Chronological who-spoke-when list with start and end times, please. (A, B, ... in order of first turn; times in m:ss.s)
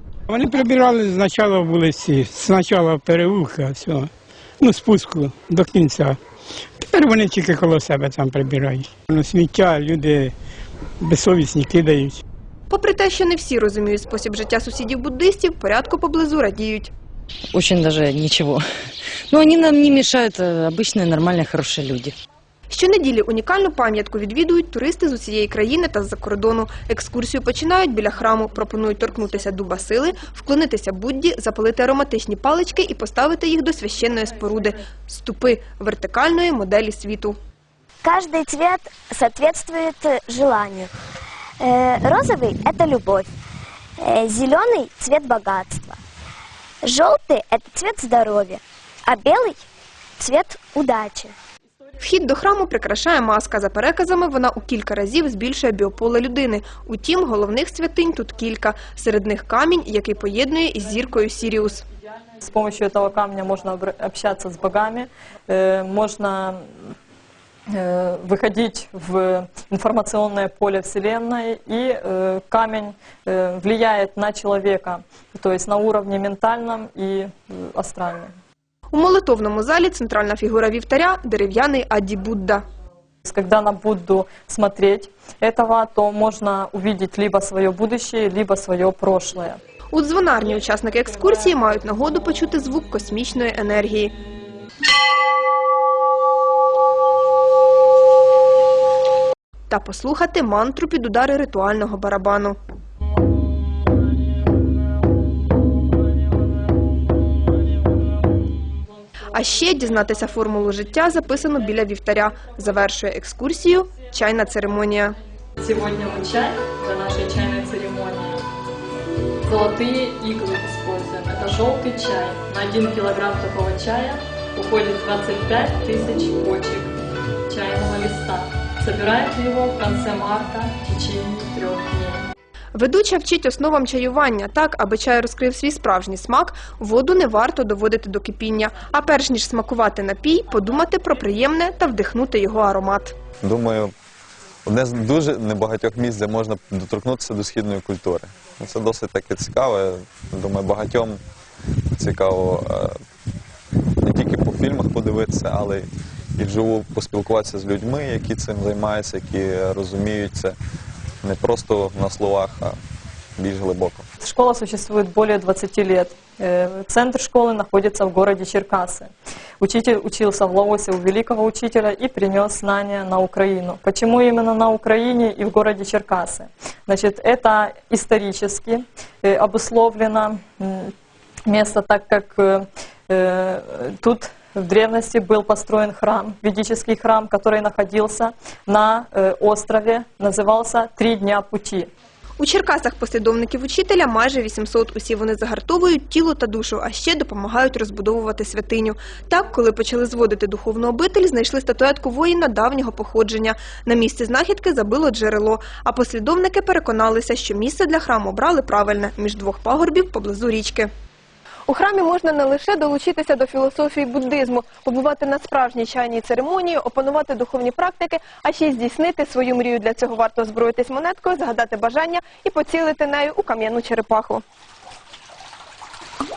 0:00.3-0:04.1 A
0:04.6-0:06.2 A
0:06.8-0:10.3 A
0:11.0-0:12.2 A
0:12.7-0:16.9 B
0:17.5-0:18.6 C
0:19.3-0:22.1 C
0:22.7-0:37.4 B
0:38.0-0:40.9 D
0:41.6-0:43.3 D
0:44.0-0:46.0 D
0:46.8-0:49.6 D
0:50.2-0:51.3 D
0:52.0-1:01.8 B
1:02.4-1:06.7 E
1:07.7-1:18.3 E
1:18.9-1:22.6 B
1:23.2-1:29.6 E
1:29.9-1:34.1 B
1:39.7-1:42.6 B
1:49.3-1:55.2 B
1:55.6-1:58.4 E
1:59.4-2:06.9 E
2:07.5-2:12.3 E
2:12.7-2:23.1 B
2:23.4-2:23.9 F
2:24.6-2:31.2 F
2:31.9-2:33.0 F
2:34.0-2:40.6 F
2:41.2-2:42.8 F
2:43.4-2:44.1 F
2:44.2-3:00.9 E
3:01.4-3:11.9 E
3:12.4-3:30.9 B
3:31.7-3:44.4 B